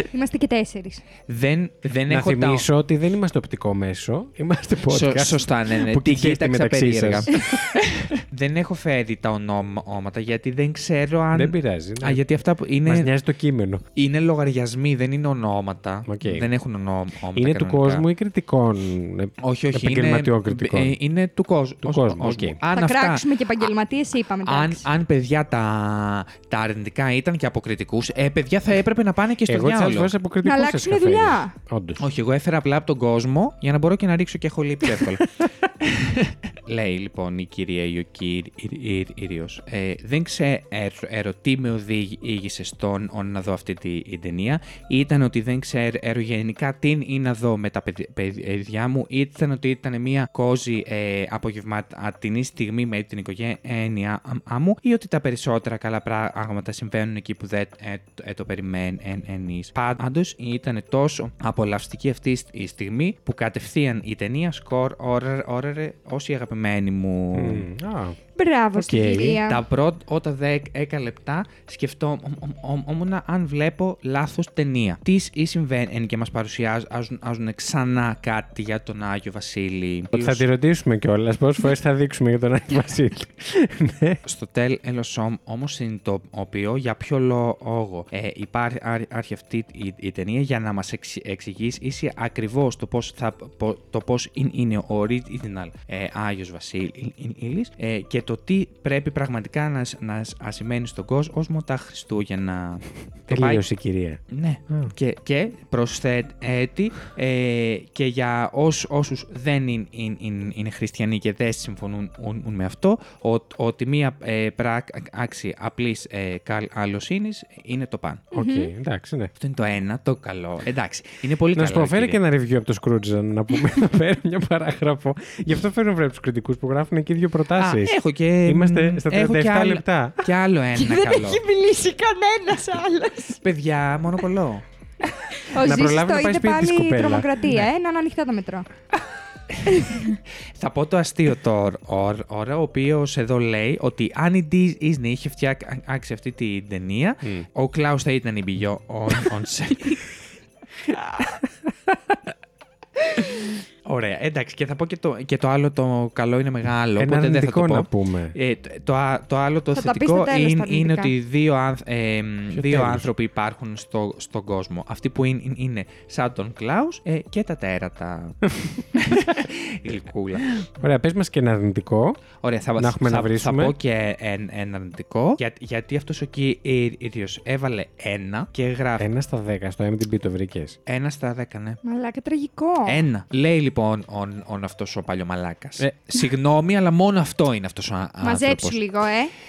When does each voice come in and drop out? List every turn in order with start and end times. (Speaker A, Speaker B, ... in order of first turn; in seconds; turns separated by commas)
Speaker A: 0.1-1.0, Speaker B: 1.3-2.7, Speaker C: 2.1-7.5, Speaker B: 4.9-13.1, Speaker C: 11.3-12.2, Speaker C: 12.8-13.8, Speaker B: 13.9-18.1, Speaker C: 16.1-16.5, Speaker C: 17.3-20.9, Speaker B: 19.4-23.6, Speaker C: 21.8-22.6, Speaker A: 22.7-24.8, Speaker B: 24.4-30.1, Speaker C: 29.5-32.0, Speaker A: 30.4-31.5, Speaker B: 32.0-67.7, Speaker C: 67.3-68.2, Speaker A: 68.3-69.6, Speaker C: 68.8-69.4, Speaker B: 69.4-80.4, Speaker C: 80.1-84.2, Speaker B: 84.2-103.6, Speaker C: 103.3-104.9, Speaker B: 104.3-118.3, Speaker A: 118.3-118.7, Speaker C: 118.3-119.3, Speaker B: 119.4-122.2, Speaker C: 121.5-130.2, Speaker B: 127.5-131.4, Speaker A: 130.7-133.4, Speaker B: 133.4-134.6, Speaker A: 135.3-138.7, Speaker C: 135.5-137.3, Speaker B: 139.5-150.1, Speaker A: 139.7-140.1, Speaker C: 147.2-147.5, Speaker B: 153.8-170.6, Speaker C: 157.0-158.3, Speaker A: 159.7-161.1, Speaker C: 162.5-163.1, Speaker C: 170.6-172.2, Speaker B: 172.4-179.1, Speaker C: 172.8-173.7, Speaker C: 179.0-180.8, Speaker B: 180.8-181.8, Speaker A: 181.8-183.1, Speaker B: 182.8-188.8, Speaker A: 188.2-189.3